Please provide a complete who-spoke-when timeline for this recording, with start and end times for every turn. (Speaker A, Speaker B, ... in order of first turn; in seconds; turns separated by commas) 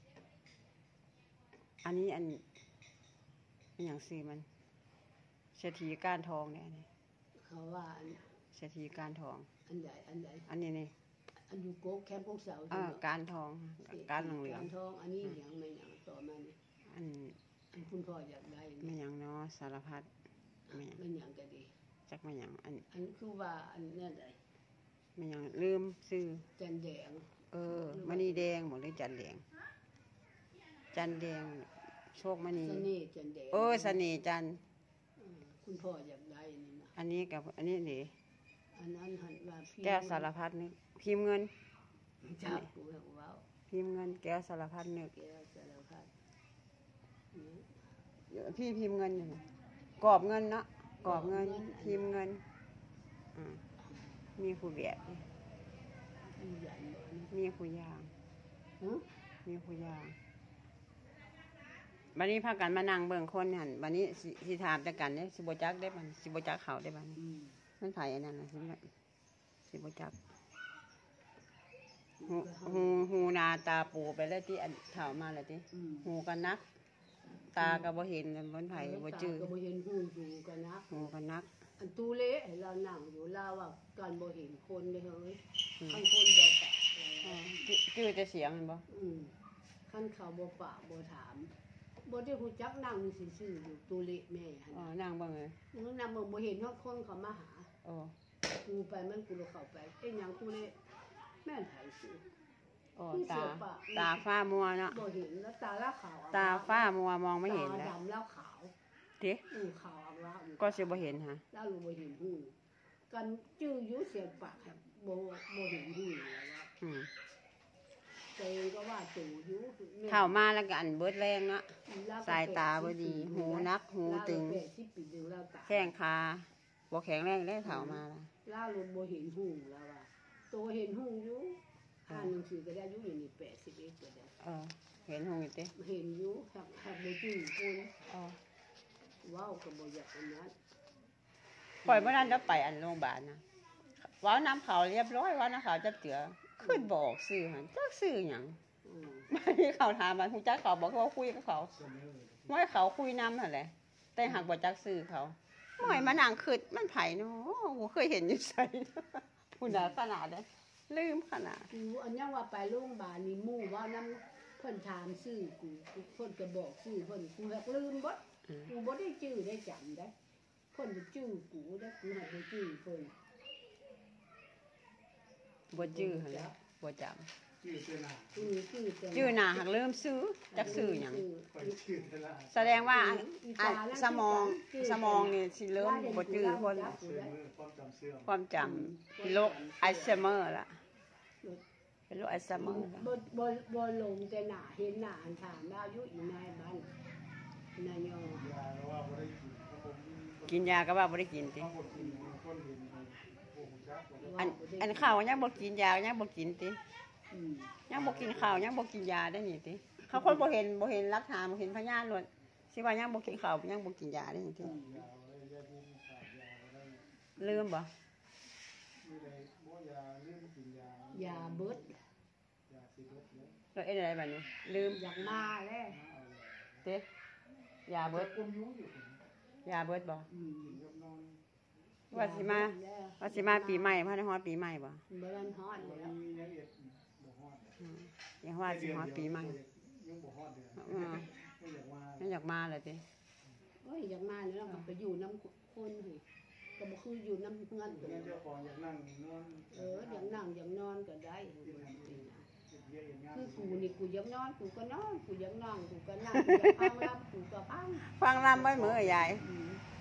Speaker A: 1.8-2.4, Speaker A: 3.8-4.5, Speaker A: 5.5-6.9, Speaker B: 7.3-8.2, Speaker A: 8.5-9.5, Speaker B: 9.7-10.5, Speaker A: 10.5-10.9, Speaker B: 11.3-13.0, Speaker A: 12.7-14.7, Speaker B: 13.9-16.6, Speaker A: 16.8-17.4, Speaker B: 17.7-19.0, Speaker A: 18.8-20.1, Speaker B: 20.7-21.7, Speaker A: 20.7-21.0, Speaker A: 22.1-22.9, Speaker B: 22.9-24.4, Speaker A: 25.1-26.4, Speaker B: 26.6-28.5, Speaker A: 27.5-29.4, Speaker A: 30.9-32.9, Speaker B: 32.6-34.0, Speaker A: 33.5-34.6, Speaker B: 35.2-36.9, Speaker A: 37.0-38.1, Speaker B: 38.7-40.3, Speaker A: 39.8-41.5, Speaker B: 42.2-43.4, Speaker A: 43.7-45.1, Speaker B: 45.1-46.1, Speaker B: 47.3-47.9, Speaker A: 48.3-49.4, Speaker A: 50.0-52.4, Speaker B: 51.0-52.1, Speaker A: 53.3-53.6, Speaker B: 53.8-54.2, Speaker A: 54.4-55.3, Speaker B: 56.3-57.3, Speaker A: 57.3-58.1, Speaker B: 58.8-59.1, Speaker A: 59.4-60.1, Speaker A: 62.1-67.2, Speaker B: 67.2-67.6, Speaker A: 67.8-68.9, Speaker A: 69.7-70.2, Speaker B: 72.2-73.1, Speaker A: 72.3-76.6, Speaker B: 75.7-76.1, Speaker A: 77.5-79.5, Speaker B: 77.6-77.9, Speaker B: 78.7-81.1, Speaker A: 80.9-81.5, Speaker B: 81.8-87.6, Speaker A: 87.2-88.8, Speaker B: 88.9-91.5, Speaker B: 92.0-94.9, Speaker A: 94.7-95.6, Speaker B: 95.7-97.7, Speaker A: 97.8-98.1, Speaker B: 98.5-102.3, Speaker A: 103.0-105.0, Speaker B: 103.1-104.2, Speaker B: 104.9-106.9, Speaker A: 106.3-107.9, Speaker B: 107.5-108.7, Speaker B: 109.5-112.5, Speaker A: 110.6-111.4, Speaker B: 113.1-116.7, Speaker A: 116.8-117.1, Speaker B: 118.3-120.4, Speaker A: 120.1-124.6, Speaker B: 121.8-125.9, Speaker A: 125.7-128.3, Speaker B: 127.6-134.3, Speaker A: 134.4-135.7, Speaker B: 135.7-137.9, Speaker A: 138.1-138.4, Speaker B: 139.2-140.6, Speaker A: 141.8-143.4, Speaker B: 141.8-142.5, Speaker A: 144.0-148.6, Speaker B: 146.6-146.9, Speaker B: 148.8-149.3, Speaker A: 149.3-151.8, Speaker C: 151.9-152.4, Speaker A: 152.5-161.7, Speaker B: 155.8-156.2, Speaker B: 161.7-170.1, Speaker B: 170.7-173.2, Speaker A: 175.7-177.3, Speaker B: 175.7-176.5, Speaker C: 177.6-178.3, Speaker B: 178.3-179.7, Speaker A: 179.1-181.2, Speaker B: 180.5-181.8, Speaker C: 181.6-182.8, Speaker A: 182.5-186.9, Speaker B: 182.9-187.3, Speaker C: 187.1-188.2, Speaker A: 188.2-190.8, Speaker B: 188.6-190.3, Speaker A: 192.1-193.1, Speaker B: 192.5-196.9, Speaker B: 197.8-198.6, Speaker C: 198.5-200.5, Speaker A: 200.4-201.8, Speaker C: 201.7-204.2, Speaker B: 201.9-202.3, Speaker B: 204.2-205.7, Speaker A: 204.4-206.8, Speaker B: 207.3-207.8, Speaker A: 207.9-214.8, Speaker B: 214.6-215.0, Speaker C: 214.8-217.0, Speaker A: 217.4-217.9, Speaker C: 219.0-221.4, Speaker B: 221.1-222.1, Speaker C: 222.7-223.5, Speaker A: 223.7-225.0, Speaker B: 224.8-226.0, Speaker C: 226.2-226.4, Speaker A: 227.8-228.4, Speaker C: 228.3-229.2, Speaker A: 229.6-230.3, Speaker B: 230.3-230.8, Speaker C: 230.8-231.4, Speaker B: 232.1-234.0, Speaker A: 232.1-235.0, Speaker B: 235.1-236.2, Speaker C: 236.1-237.7, Speaker A: 237.8-239.6, Speaker C: 239.6-242.2, Speaker A: 240.8-241.3, Speaker A: 242.2-243.0, Speaker B: 243.7-246.2, Speaker B: 246.8-248.4, Speaker C: 248.3-250.1, Speaker B: 249.7-252.4, Speaker C: 252.7-253.7, Speaker B: 253.3-259.8, Speaker A: 258.0-259.4